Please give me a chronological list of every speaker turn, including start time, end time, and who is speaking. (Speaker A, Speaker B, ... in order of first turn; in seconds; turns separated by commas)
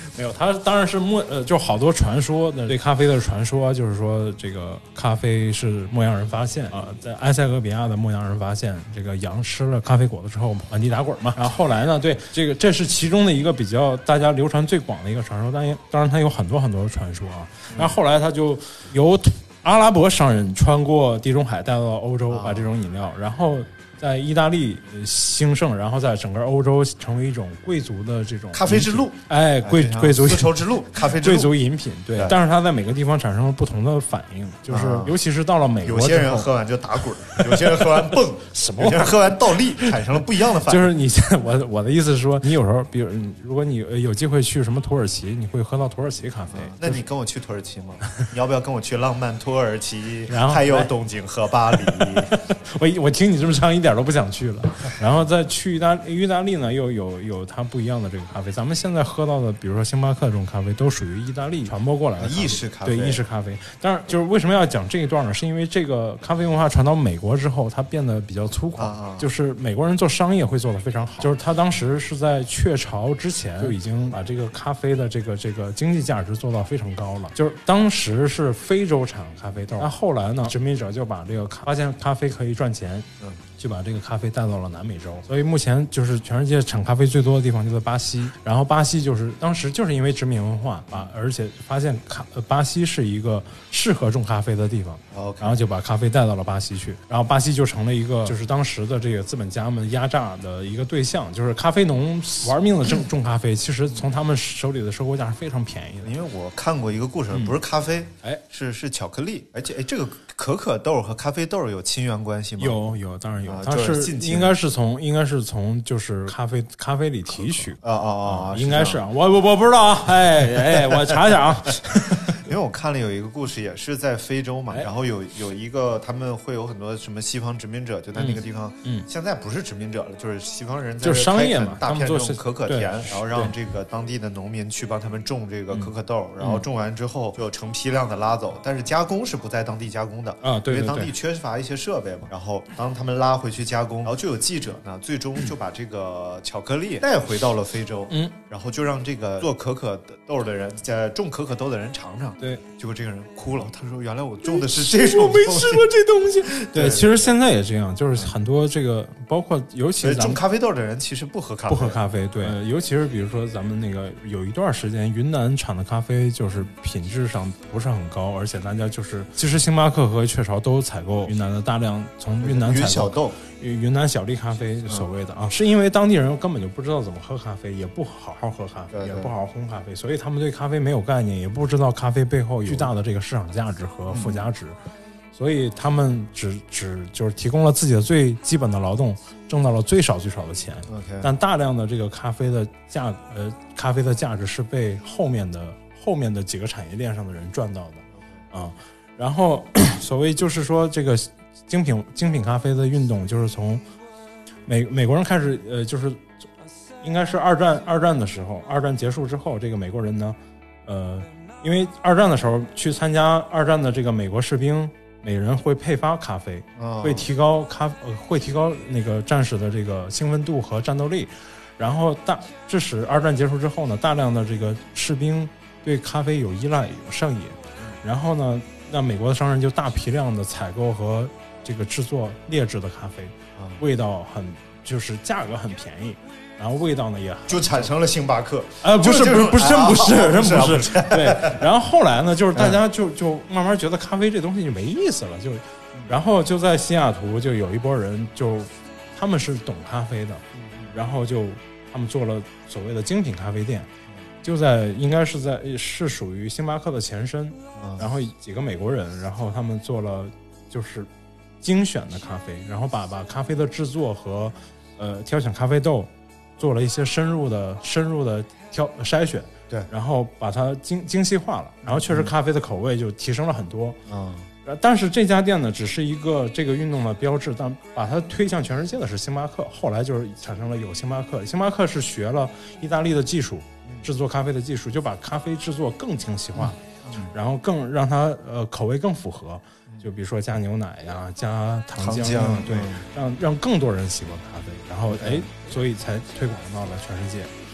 Speaker A: 0.1-36.5, Speaker B: 17.7-17.9, Speaker B: 22.3-22.7, Speaker B: 28.5-31.6, Speaker B: 34.7-35.2, Speaker B: 35.8-40.9, Speaker A: 37.4-37.9, Speaker A: 38.5-39.3, Speaker A: 40.6-46.9, Speaker B: 46.5-52.3, Speaker A: 50.3-50.9, Speaker A: 51.8-106.1, Speaker B: 62.2-63.2, Speaker B: 68.8-69.3, Speaker B: 95.1-95.6, Speaker B: 106.0-112.9, Speaker A: 112.6-122.4, Speaker B: 113.5-114.6, Speaker B: 117.3-119.0, Speaker B: 120.7-121.2, Speaker B: 122.3-155.9, Speaker A: 128.2-129.1, Speaker A: 131.0-133.5, Speaker A: 135.7-136.6, Speaker A: 140.4-141.1, Speaker A: 148.1-148.3, Speaker A: 154.4-160.4, Speaker B: 156.4-157.4, Speaker B: 160.0-162.6, Speaker A: 161.7-184.8, Speaker B: 172.4-173.4, Speaker B: 178.9-179.3, Speaker B: 184.1-184.5, Speaker A: 185.3-203.8, Speaker B: 190.9-191.3, Speaker A: 204.7-206.4, Speaker A: 207.0-237.9, Speaker B: 216.8-217.3, Speaker B: 233.6-233.8, Speaker B: 237.5-241.7, Speaker A: 238.8-253.9, Speaker B: 242.6-242.8, Speaker B: 250.6-250.9, Speaker A: 254.4-261.1, Speaker B: 257.8-258.1, Speaker A: 261.6-274.0, Speaker B: 271.8-272.3, Speaker B: 274.1-274.5, Speaker A: 274.6-297.5, Speaker B: 286.6-287.3, Speaker B: 292.0-293.1, Speaker B: 295.1-295.5